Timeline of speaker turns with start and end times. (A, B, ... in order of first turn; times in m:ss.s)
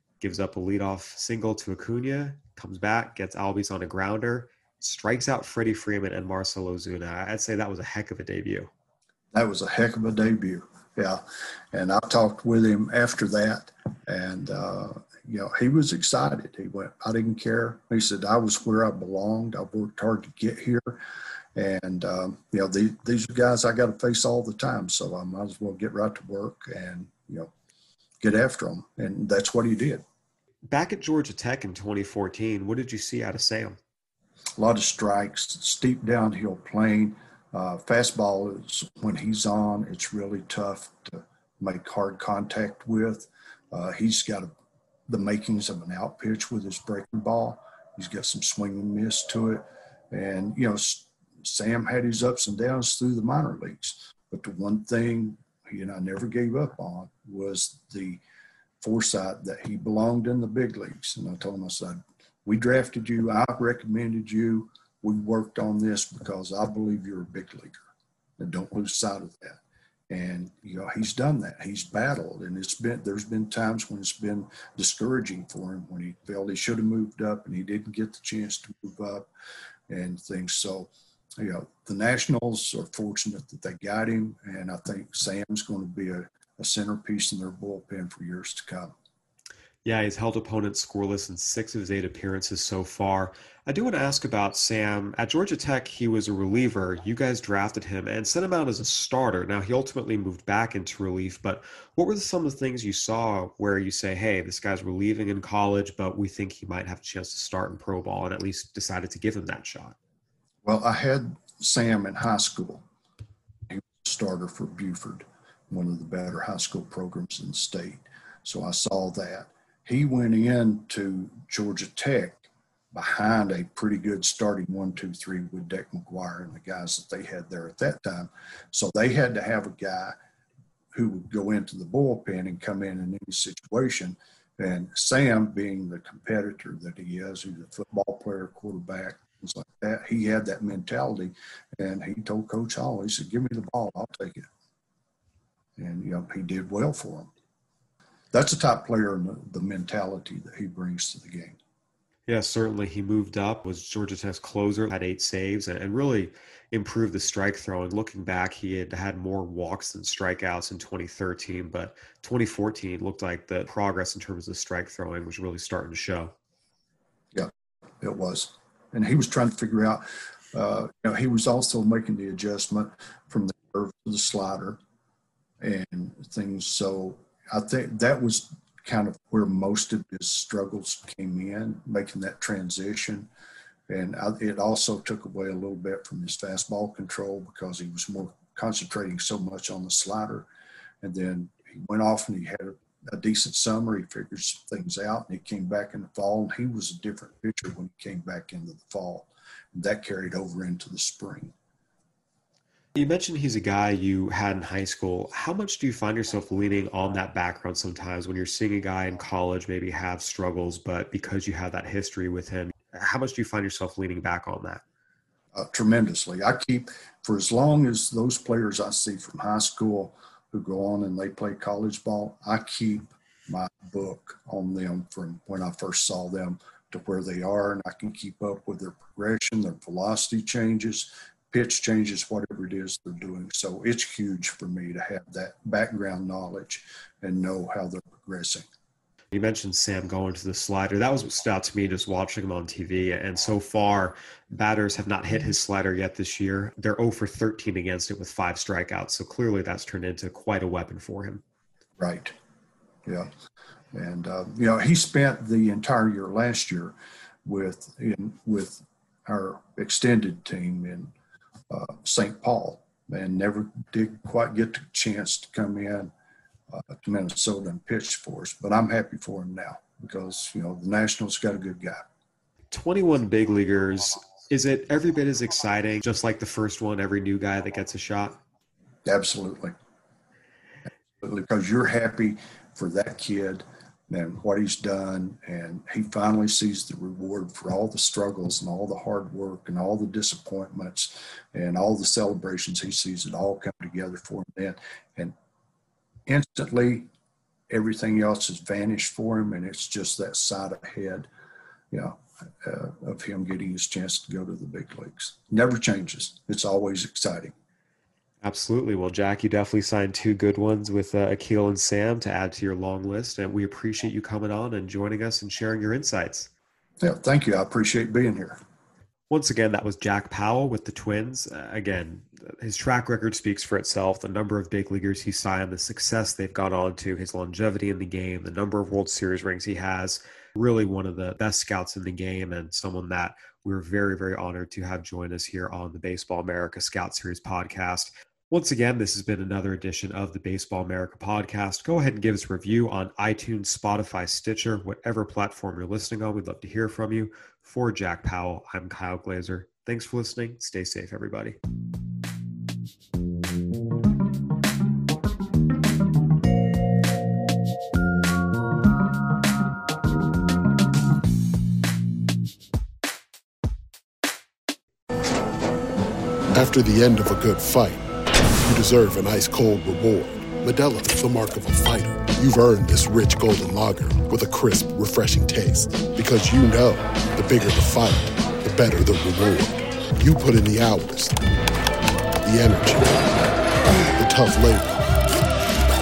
0:00.2-0:08.7 A
0:09.3-0:21.0 B
0:21.5-0:27.5 B
0:28.2-0:30.0 B
0:30.7-0:33.8 A
0:34.6-0:44.5 B
0:45.1-0:58.2 B
0:58.8-1:07.8 B
1:08.4-1:19.3 B
1:19.9-1:28.9 B
1:29.8-1:50.0 A
1:50.6-1:52.8 B
1:53.7-2:10.2 B
2:10.9-2:24.4 B
2:25.8-2:27.3 B
2:28.3-2:31.6 B
2:32.3-2:46.3 A
2:47.3-2:54.8 B
2:55.6-3:03.3 B
3:03.9-3:10.5 B
3:11.0-3:21.5 B
3:22.9-3:34.8 A
3:35.5-3:58.6 B
3:59.3-4:11.4 A
4:12.0-4:12.3 B
4:13.0-4:13.3 B
4:13.9-4:16.9 B
4:17.4-4:21.1 B
4:21.7-4:26.1 B
4:26.7-4:32.0 B
4:32.7-4:38.4 A
4:39.0-4:39.8 B
4:41.2-4:55.3 B
4:56.2-4:57.1 B
4:57.7-5:01.3 B
5:01.9-5:07.5 B
5:08.4-5:16.5 A
5:17.0-5:18.6 B
5:19.3-5:51.6 A
6:06.5-6:08.1 C
6:08.6-6:21.4 C
6:22.4-6:23.3 C
6:24.2-6:25.0 C